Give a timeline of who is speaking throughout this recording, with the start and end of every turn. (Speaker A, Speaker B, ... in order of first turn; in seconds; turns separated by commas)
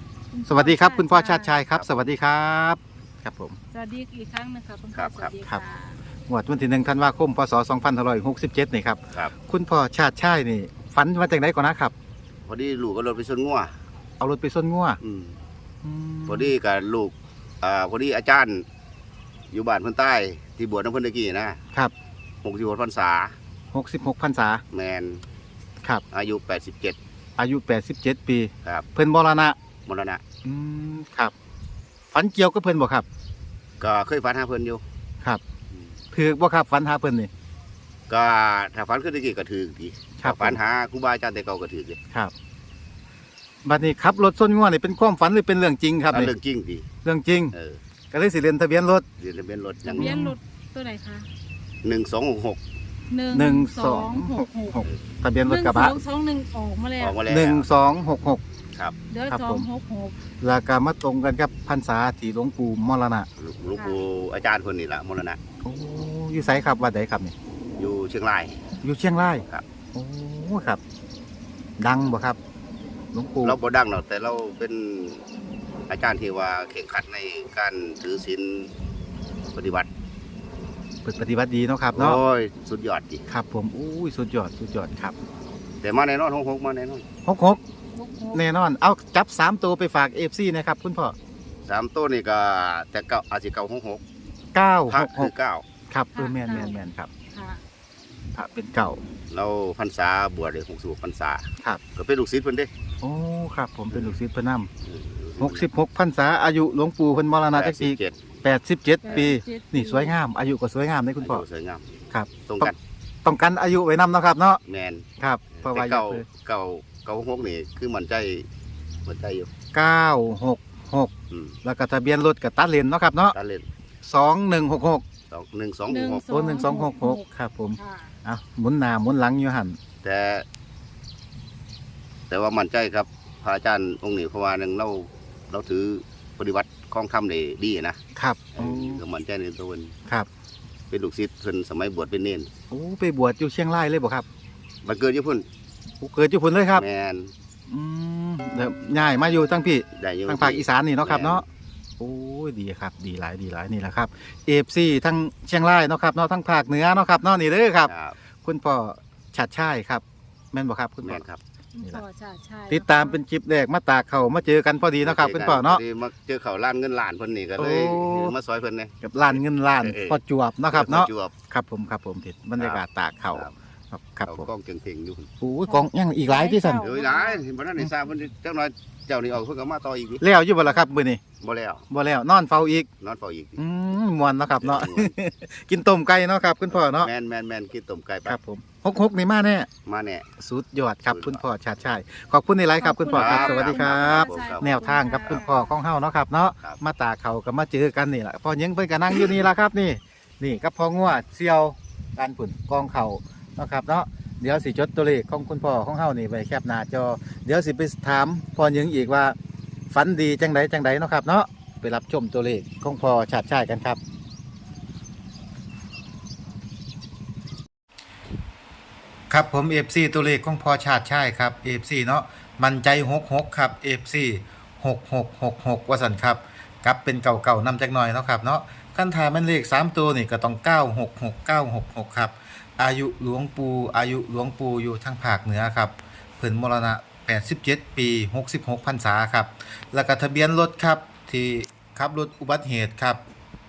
Speaker A: 0.3-1.6, Speaker B: 0.5-3.6, Speaker C: 1.7-2.1, Speaker A: 3.7-6.0, Speaker C: 4.9-5.4, Speaker B: 6.3-11.9, Speaker C: 12.5-13.7, Speaker B: 14.2-15.0, Speaker C: 15.0-15.4, Speaker B: 15.8-16.5, Speaker C: 16.3-18.7, Speaker C: 19.5-21.6, Speaker C: 22.4-23.4, Speaker B: 23.7-24.6, Speaker C: 24.7-25.2, Speaker C: 26.1-27.0, Speaker B: 27.4-29.6, Speaker C: 29.9-30.2, Speaker B: 30.4-31.3, Speaker B: 32.1-33.1, Speaker C: 33.8-34.8, Speaker B: 36.1-37.3, Speaker C: 38.1-42.0, Speaker B: 40.2-40.6, Speaker B: 43.6-46.3, Speaker C: 46.1-46.9, Speaker B: 47.0-47.5, Speaker C: 47.5-47.8, Speaker B: 48.1-49.0, Speaker C: 49.2-50.1, Speaker A: 49.9-51.3, Speaker B: 50.0-50.4, Speaker C: 51.8-52.6, Speaker A: 53.1-54.8, Speaker B: 53.3-56.0, Speaker A: 55.4-57.1, Speaker C: 57.0-57.7, Speaker B: 57.3-58.4, Speaker A: 59.1-60.2, Speaker B: 59.3-59.7, Speaker B: 60.4-63.3, Speaker C: 63.4-65.4, Speaker A: 63.8-64.0, Speaker B: 65.6-67.3, Speaker C: 67.8-68.6, Speaker B: 68.8-70.8, Speaker B: 71.8-72.4, Speaker B: 73.1-73.6, Speaker C: 73.4-75.2, Speaker C: 75.9-78.7, Speaker C: 79.5-79.9, Speaker B: 81.0-82.2, Speaker C: 82.0-83.2, Speaker B: 83.3-85.2, Speaker C: 85.8-87.0, Speaker B: 87.2-87.6, Speaker A: 87.9-88.4, Speaker B: 88.3-91.2, Speaker C: 91.7-94.0, Speaker B: 94.5-95.3, Speaker C: 94.9-95.7, Speaker B: 95.9-97.1, Speaker A: 96.1-96.8, Speaker A: 97.3-97.6, Speaker B: 98.3-99.0, Speaker C: 99.3-102.7, Speaker B: 103.0-104.7, Speaker C: 104.8-105.7, Speaker B: 105.4-111.4, Speaker C: 107.5-108.2, Speaker A: 109.0-110.2, Speaker C: 111.2-111.9, Speaker B: 112.1-112.7, Speaker C: 112.4-112.8, Speaker B: 113.2-114.6, Speaker C: 114.7-118.5, Speaker B: 115.2-116.3, Speaker C: 119.1-119.5, Speaker B: 119.7-121.1, Speaker C: 121.3-121.6, Speaker B: 121.6-123.3, Speaker C: 123.3-123.7, Speaker B: 124.0-125.0, Speaker C: 125.3-126.5, Speaker A: 125.9-127.2, Speaker B: 126.3-129.8, Speaker A: 127.8-128.2, Speaker C: 130.0-130.5, Speaker C: 132.3-138.0, Speaker B: 138.2-139.0, Speaker C: 138.6-140.0, Speaker C: 140.9-142.5, Speaker B: 142.7-144.3, Speaker C: 144.8-145.5, Speaker B: 146.0-146.8, Speaker C: 146.7-147.3, Speaker B: 147.7-151.4, Speaker C: 149.9-151.4, Speaker B: 152.0-157.9, Speaker C: 157.9-158.2, Speaker B: 158.4-161.2, Speaker C: 161.0-161.4, Speaker A: 161.8-163.2, Speaker B: 162.7-165.8, Speaker C: 165.0-171.3, Speaker B: 167.6-168.4, Speaker B: 169.0-174.5, Speaker C: 172.6-173.5, Speaker C: 174.2-175.3, Speaker B: 175.4-176.8, Speaker A: 175.7-177.4, Speaker C: 176.8-180.2, Speaker B: 180.2-181.2, Speaker C: 181.4-181.9, Speaker B: 181.9-182.9, Speaker C: 183.0-183.6, Speaker B: 183.6-187.1, Speaker C: 184.6-185.1, Speaker C: 186.7-188.4, Speaker B: 188.3-189.7, Speaker C: 189.8-190.3, Speaker B: 190.4-209.4, Speaker C: 191.1-191.4, Speaker A: 192.8-195.7, Speaker C: 193.1-195.4, Speaker B: 209.9-214.0, Speaker B: 219.3-243.2